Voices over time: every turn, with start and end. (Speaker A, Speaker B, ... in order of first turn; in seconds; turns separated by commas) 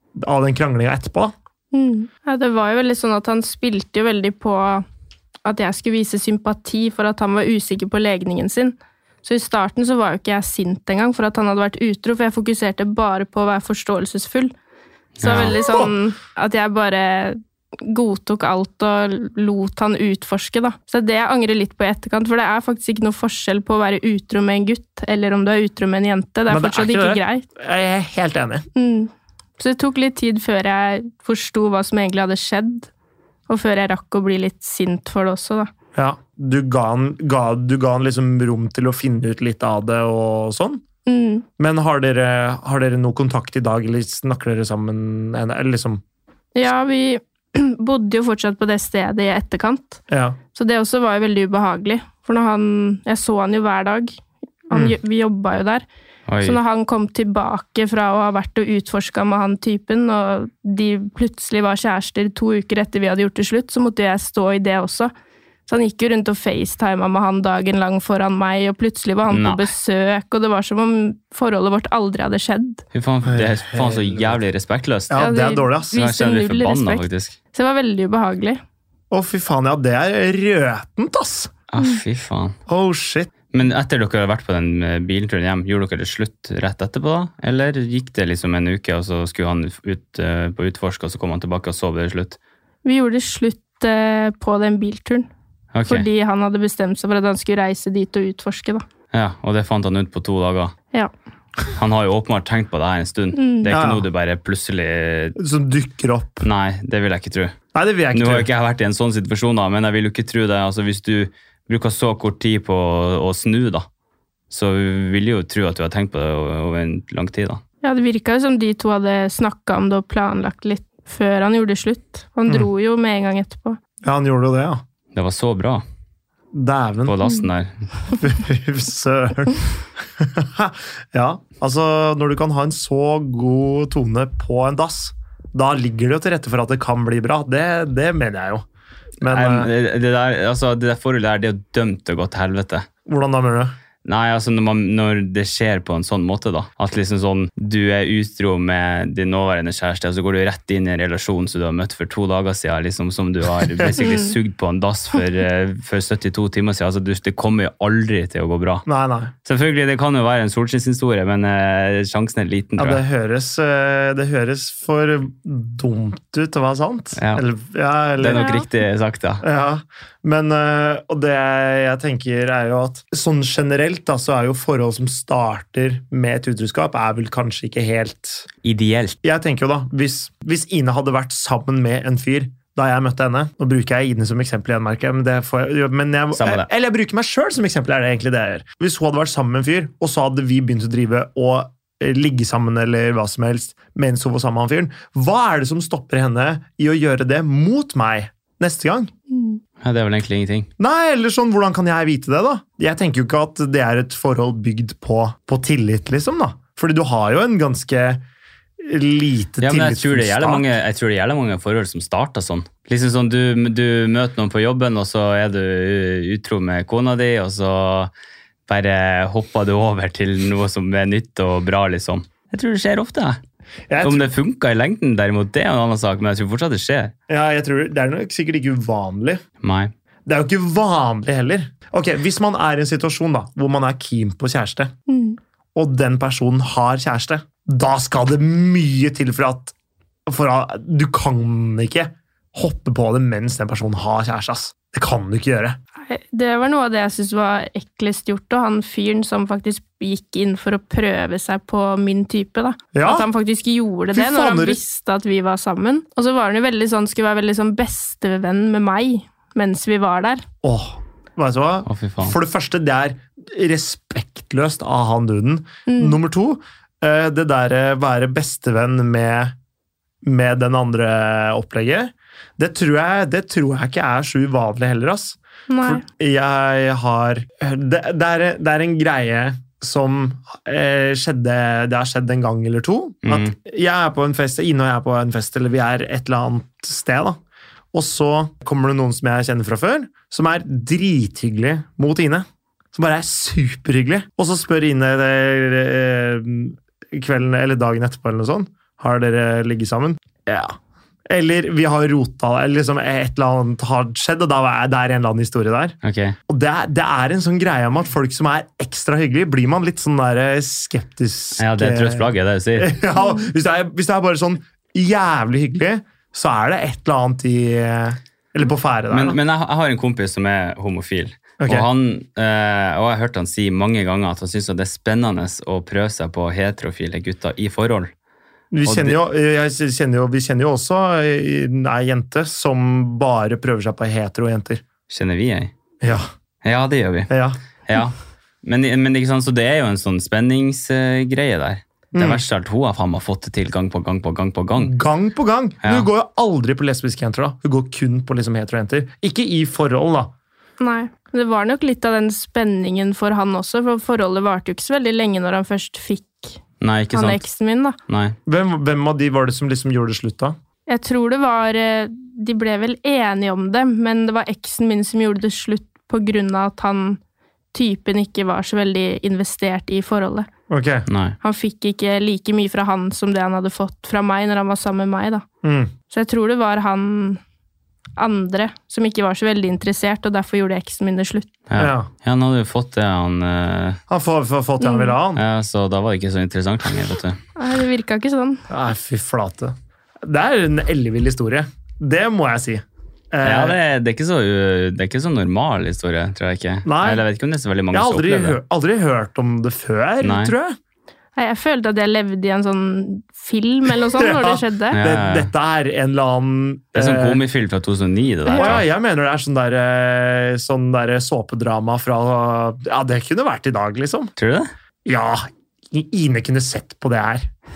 Speaker A: 0.2-1.3, Speaker B: 1.7-4.8, Speaker B: 5.5-14.5, Speaker C: 15.2-15.6, Speaker B: 15.2-27.5, Speaker A: 26.5-28.7, Speaker B: 28.8-32.9, Speaker B: 33.5-35.7, Speaker A: 36.0-40.8, Speaker B: 41.1-41.5, Speaker A: 41.6-46.0, Speaker B: 46.5-50.0, Speaker A: 50.1-50.4, Speaker B: 50.5-54.2, Speaker B: 54.7-55.9, Speaker C: 56.3-56.6, Speaker B: 56.4-65.1, Speaker B: 65.7-72.8, Speaker C: 69.3-69.7, Speaker C: 72.9-75.2, Speaker A: 73.2-74.4, Speaker A: 75.1-76.0, Speaker B: 75.2-78.6, Speaker C: 75.9-77.4, Speaker A: 79.1-81.5, Speaker C: 81.7-82.6, Speaker A: 82.7-83.3, Speaker C: 83.5-92.4, Speaker B: 92.8-95.3, Speaker C: 95.7-96.1, Speaker B: 95.9-98.8, Speaker C: 99.1-100.8, Speaker C: 101.7-105.4, Speaker B: 103.3-103.7, Speaker A: 103.7-104.1, Speaker A: 105.4-106.5, Speaker C: 106.4-107.5, Speaker A: 107.7-108.5, Speaker C: 108.1-113.9, Speaker C: 114.5-117.6, Speaker B: 117.8-123.8, Speaker A: 124.0-124.8, Speaker C: 125.1-125.8, Speaker A: 126.5-127.2, Speaker C: 127.1-127.7, Speaker A: 128.2-138.7, Speaker A: 139.2-139.7, Speaker C: 139.2-142.9, Speaker A: 143.1-143.7, Speaker C: 144.1-158.8, Speaker B: 154.0-154.3, Speaker A: 158.9-159.3, Speaker C: 159.4-163.0, Speaker A: 162.8-168.5, Speaker C: 167.2-167.4, Speaker C: 168.2-169.4, Speaker B: 168.3-168.7, Speaker A: 169.4-178.5, Speaker C: 178.6-179.2, Speaker A: 179.2-199.1, Speaker C: 186.3-186.7, Speaker B: 199.3-199.6, Speaker C: 199.8-200.7, Speaker A: 200.8-208.2, Speaker A: 208.8-210.7, Speaker C: 209.6-218.1, Speaker C: 218.7-223.4, Speaker A: 223.9-224.3, Speaker C: 224.0-227.1, Speaker A: 227.3-229.4, Speaker C: 229.6-229.9, Speaker A: 230.3-234.9, Speaker B: 235.1-235.4, Speaker A: 235.8-239.7, Speaker A: 240.3-245.8, Speaker B: 246.0-260.4, Speaker A: 252.9-253.3, Speaker A: 254.1-254.8, Speaker A: 260.6-269.6, Speaker C: 261.9-262.4, Speaker B: 265.9-266.2, Speaker A: 270.2-287.4, Speaker B: 275.7-276.0, Speaker C: 283.2-283.5, Speaker A: 287.9-300.8, Speaker A: 301.3-306.0, Speaker C: 306.0-306.4, Speaker A: 306.5-319.4, Speaker C: 311.6-312.9, Speaker B: 313.2-313.5, Speaker C: 319.1-328.1, Speaker A: 321.6-321.9, Speaker A: 328.7-334.8, Speaker C: 328.9-329.2, Speaker C: 335.1-335.7, Speaker A: 336.0-336.3, Speaker C: 336.6-337.3, Speaker A: 337.3-337.6, Speaker C: 337.9-344.9, Speaker A: 342.1-342.4, Speaker A: 344.8-350.3, Speaker C: 345.8-346.1, Speaker B: 350.8-356.6, Speaker C: 356.8-357.4, Speaker B: 357.1-358.0, Speaker C: 358.1-358.4, Speaker A: 358.5-360.6, Speaker B: 360.9-367.2, Speaker B: 367.7-370.5, Speaker A: 370.7-371.1, Speaker C: 371.1-371.4, Speaker B: 371.4-375.4, Speaker A: 375.6-375.9, Speaker B: 376.1-377.4, Speaker B: 378.2-381.5, Speaker C: 381.7-384.0, Speaker A: 381.8-382.1, Speaker A: 384.1-385.4, Speaker B: 384.8-385.1, Speaker C: 385.4-387.4, Speaker B: 387.6-388.6, Speaker A: 388.7-393.8, Speaker C: 393.4-398.6, Speaker A: 396.9-397.2, Speaker A: 397.9-400.8, Speaker C: 400.2-400.5, Speaker B: 401.4-405.0, Speaker A: 404.1-407.4, Speaker C: 404.9-405.5, Speaker C: 406.9-408.8, Speaker B: 408.5-408.8, Speaker A: 408.6-414.3, Speaker C: 414.4-414.7, Speaker A: 415.1-417.5